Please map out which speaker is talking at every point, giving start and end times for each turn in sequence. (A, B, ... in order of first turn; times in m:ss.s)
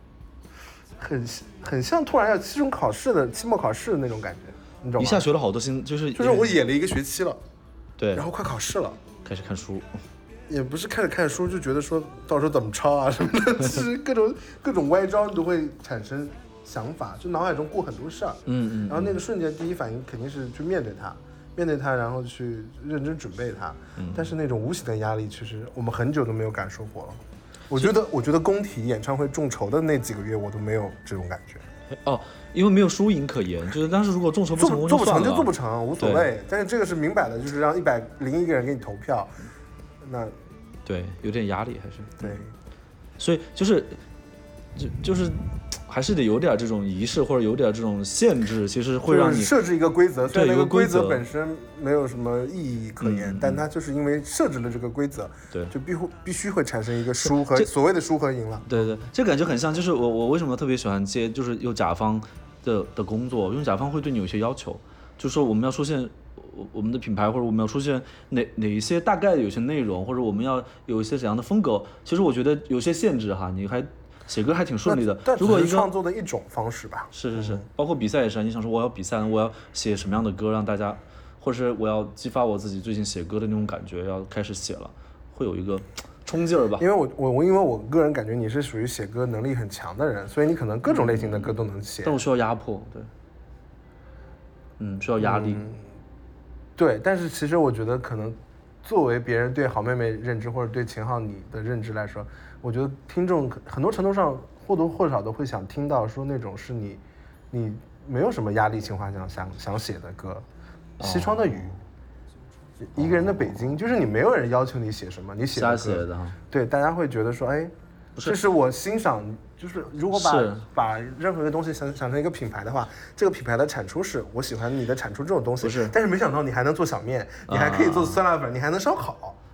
0:01.0-0:05.3 A
0:05.0-0:06.6 B
0:06.2-0:07.4 A
0:08.0-0:08.2 B
0:08.1-0:09.0 A
0:09.2-0:09.9 B
0:10.5-0:31.6 A
0:18.5-0:19.2 B
0:24.0-0:24.3 B
0:31.9-0:36.3 B
0:34.5-0:39.3 A
0:40.0-0:40.4 A
0:40.9-0:42.4 B
0:42.2-0:42.5 A
0:43.2-0:44.0 B
0:44.8-0:49.5 B
0:49.0-0:58.7 A
0:50.3-0:51.2 B
0:53.0-0:53.6 B
0:57.3-0:57.7 B
0:58.7-1:15.9 B
1:14.9-1:17.6 A
1:17.1-1:26.9 B
1:26.8-1:32.2 A
1:30.9-1:33.1 B
1:34.8-1:35.6 B
1:35.2-1:35.8 A
1:36.8-1:50.5 A
1:51.0-1:51.8 A
1:51.0-1:51.7 B
1:52.8-2:09.4 A
1:55.6-1:56.4 B
2:00.1-2:00.6 B
2:05.6-2:05.9 B
2:07.5-2:08.2 B